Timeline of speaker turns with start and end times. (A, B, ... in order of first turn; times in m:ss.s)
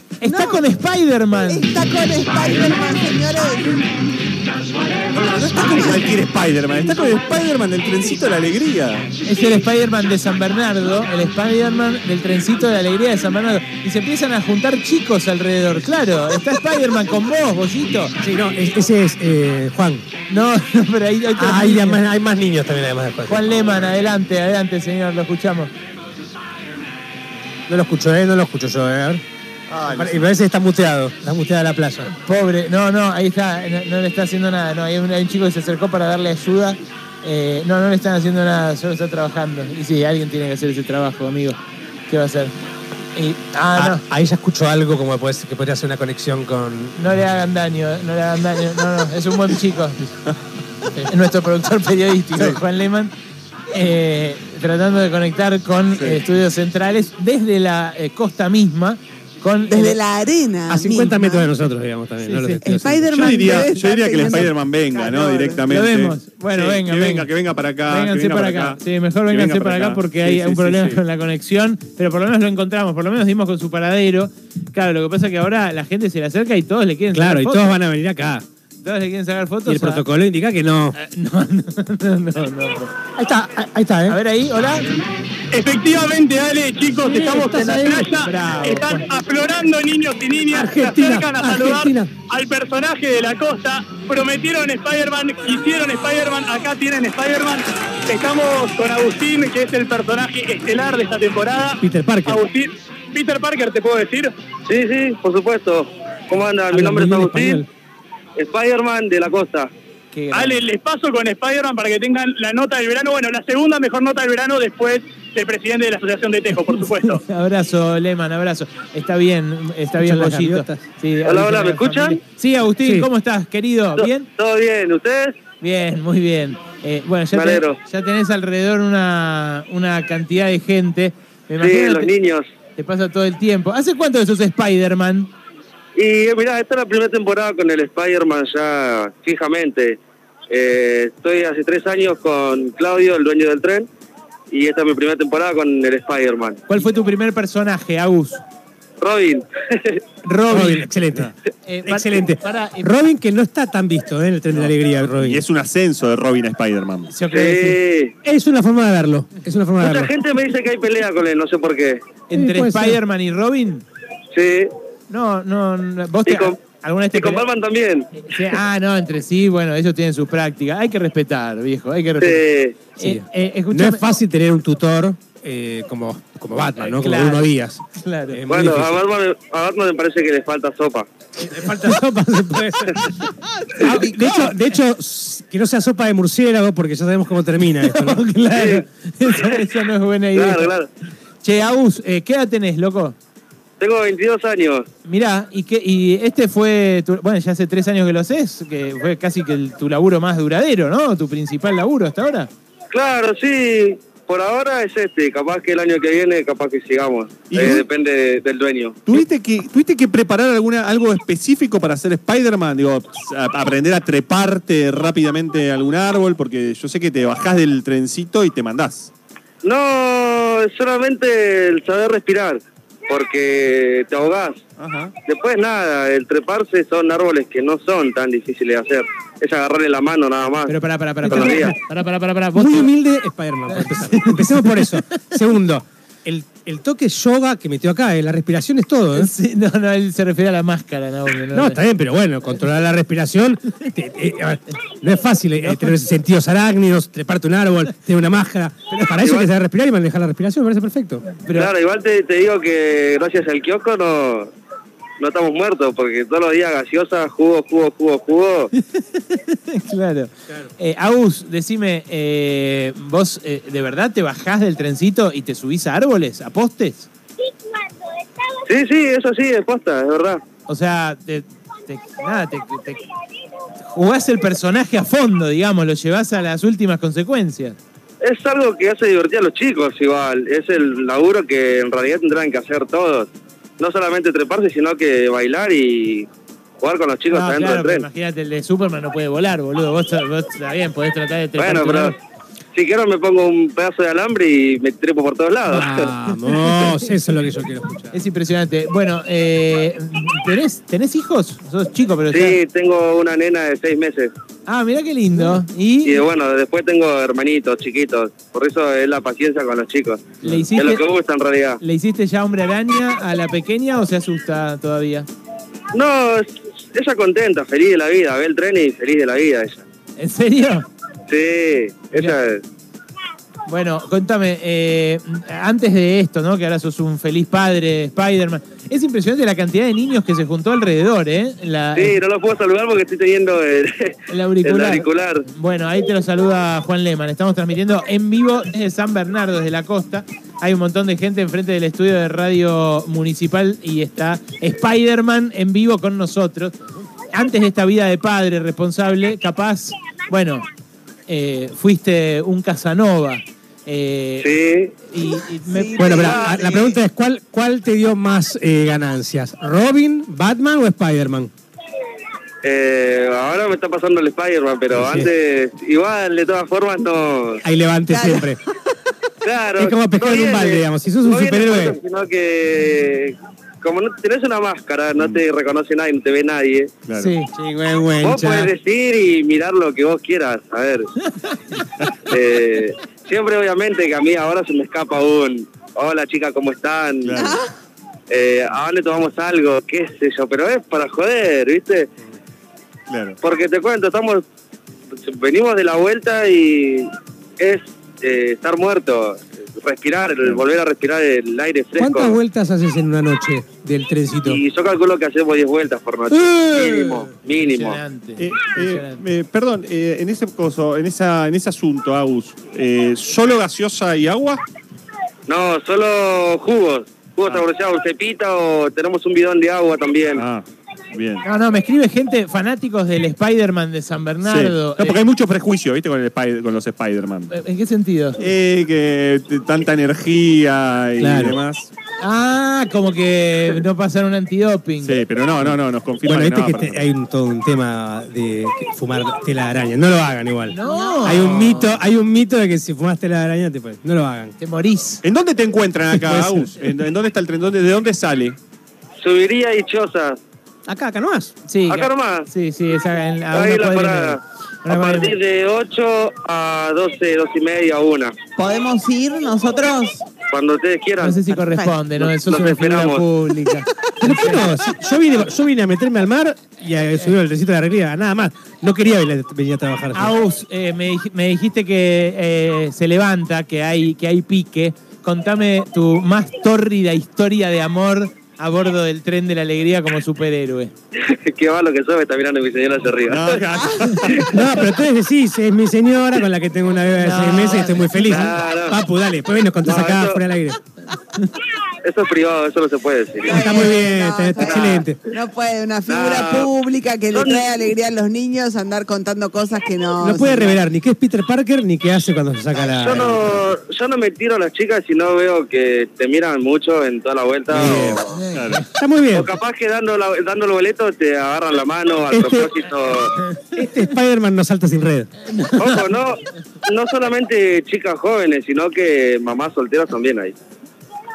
0:00.2-0:01.7 A
0:00.2-0:00.6 B
0:01.5-0:03.8 B
0:05.2-0:09.1 C
0:05.7-0:05.9 B
0:09.2-0:18.1 A
0:18.2-0:20.0 D
0:20.3-0:22.0 A
0:21.4-0:23.4 D
0:23.3-0:25.7 A
0:27.7-0:29.2 D
0:29.7-0:30.2 C
0:29.9-0:32.1 D
0:32.1-0:41.6 A
0:42.1-0:42.5 A
0:43.2-0:44.0 A
0:43.8-0:47.0 D
0:47.0-0:50.0 A
0:50.9-0:53.1 A
0:53.7-1:00.0 A
0:56.0-0:56.2 C
0:59.7-1:01.5 B
1:00.7-1:03.2 D
1:02.3-1:02.6 A
1:02.6-1:05.7 B
1:03.1-1:11.0 C
1:05.7-1:07.3 A
1:07.9-1:17.7 A
1:17.1-1:18.4 D
1:18.8-1:20.0 A
1:19.7-1:21.0 D
1:21.0-1:22.9 A
1:23.2-1:24.2 D
1:24.1-1:24.8 A
1:25.5-1:44.3 E
1:27.0-1:28.1 D
1:28.2-1:29.1 A
1:30.5-1:32.1 D
1:41.8-1:42.4 D
1:44.7-1:47.6 F
1:46.7-1:47.7 D
1:48.4-1:49.7 F
1:50.1-1:50.6 A
1:50.3-1:57.2 E
1:56.7-2:04.3 A
2:00.0-2:00.8 D
2:01.2-2:02.2 F
2:02.8-2:03.1 D
2:04.0-2:05.4 F
2:05.6-2:12.1 A
2:07.3-2:07.8 F
2:11.6-2:12.5 F
2:12.8-2:15.3 A
2:16.0-2:23.9 F
2:24.5-2:26.6 F
2:26.7-2:28.4 A
2:29.0-2:30.0 F
2:30.2-2:30.9 A
2:30.5-2:31.3 D
2:31.6-2:32.9 A
2:31.8-2:35.4 D
2:34.5-2:37.1 C
2:37.1-2:37.8 A
2:37.3-2:38.1 F
2:38.2-2:40.1 D
2:39.8-2:42.0 F
2:42.3-2:43.8 A
2:42.3-2:43.0 D
2:44.3-2:44.7 F
2:45.1-2:47.5 A
2:46.3-2:46.6 F
2:47.1-2:48.2 F
2:48.2-2:52.4 A
2:52.2-2:52.8 F
2:53.0-2:54.1 A
2:53.0-2:59.0 D
2:56.8-2:58.4 A
2:58.5-3:01.1 F
3:01.4-3:03.3 D
3:01.4-3:01.7 A
3:03.8-3:08.2 D
3:03.8-3:04.5 B
3:07.8-3:10.7 A
3:08.5-3:09.7 F
3:10.3-3:10.9 F
3:11.4-3:13.2 A
3:13.8-3:14.9 F
3:15.0-3:22.5 A
3:22.9-3:29.0 F
3:27.5-3:27.9 C
3:29.1-3:39.1 C
3:39.6-3:44.6 F
3:44.8-3:45.1 C
3:45.3-3:51.8 F
3:50.7-3:52.9 A
3:51.2-3:51.8 D
3:52.5-3:59.3 D
3:53.7-3:54.9 A
3:59.2-4:01.8 A
4:01.5-4:11.2 D
4:05.6-4:05.9 A
4:09.2-4:09.5 F
4:11.3-4:11.7 A
4:11.5-4:14.5 F
4:15.2-4:18.7 F
4:18.8-4:27.1 A
4:28.7-4:30.4 F
4:30.7-4:33.0 A
4:33.9-4:37.8 A
4:38.2-4:46.3 F
4:46.8-4:48.1 F
4:47.3-4:52.1 A
4:51.6-4:52.2 F
4:52.8-4:56.1 F
4:55.7-4:58.2 D
4:56.6-4:57.1 A
4:58.1-5:02.6 A
5:02.3-5:04.3 F
5:04.7-5:06.2 A
5:06.0-5:11.8 F
5:10.4-5:11.0 A
5:11.8-5:15.3 A
5:15.9-5:19.8 F
5:20.2-5:20.9 A
5:21.3-5:22.6 F
5:23.7-5:32.2 A
5:31.9-5:35.5 F
5:34.3-5:46.7 A
5:47.3-5:50.6 A
5:51.3-5:54.5 A
5:54.4-5:54.9 F
5:55.0-5:56.3 A
5:55.7-5:56.6 B
5:56.0-6:01.5 D
5:56.1-5:56.9 F
6:02.6-6:07.6 F
6:04.9-6:05.3 D
6:07.6-6:08.6 D
6:08.1-6:08.5 B
6:09.4-6:16.9 F
6:09.8-6:12.0 D
6:17.1-6:17.3 C
6:17.2-6:17.5 A
6:17.5-6:18.7 D
6:18.2-6:21.1 F
6:22.3-6:27.4 F
6:27.2-6:27.6 C
6:27.4-6:27.6 B
6:28.3-6:32.1 F
6:33.1-6:33.4 C
6:33.4-6:34.4 F
6:35.2-6:42.4 F
6:42.0-6:44.6 D
6:44.4-6:48.0 F
6:46.3-6:47.3 D
6:47.5-6:49.2 A
6:48.4-6:54.6 C
6:55.5-7:00.4 F
7:00.4-7:01.4 C
7:01.4-7:05.2 A
7:04.4-7:07.5 C
7:07.5-7:08.4 A
7:08.4-7:11.9 C
7:11.2-7:11.6 D
7:12.2-7:15.2 A
7:15.0-7:17.0 C
7:15.6-7:24.5 D
7:20.7-7:22.0 A
7:24.6-7:25.2 A
7:25.2-7:28.6 C
7:26.2-7:26.7 D
7:29.2-7:30.4 F
7:30.9-7:31.5 D
7:31.7-7:35.4 A
7:31.9-7:32.5 F
7:33.5-7:38.3 F
7:38.6-7:40.2 B
7:40.5-7:41.5 F
7:41.2-7:44.7 A
7:42.1-7:43.3 F
7:44.2-7:50.3 D
7:50.1-8:00.9 A
8:01.2-8:03.6 F
8:03.2-8:04.6 C
8:04.2-8:04.5 F
8:04.5-8:10.8 D
8:07.2-8:08.5 A
8:08.2-8:09.0 F
8:09.8-8:10.4 F
8:12.0-8:13.7 F
8:13.4-8:20.8 B
8:13.5-8:15.2 D
8:14.6-8:15.1 F
8:16.1-8:16.7 F
8:17.3-8:17.9 F
8:20.2-8:23.6 D
8:22.8-8:28.4 F
8:27.7-8:28.2 D
8:28.3-8:28.8 A
8:28.5-8:28.9 C
8:28.9-8:29.5 D
8:29.3-8:33.4 F
8:32.3-8:32.8 D
8:33.5-8:34.0 A
8:33.8-8:35.3 D
8:35.5-8:36.0 A
8:35.8-8:40.6 F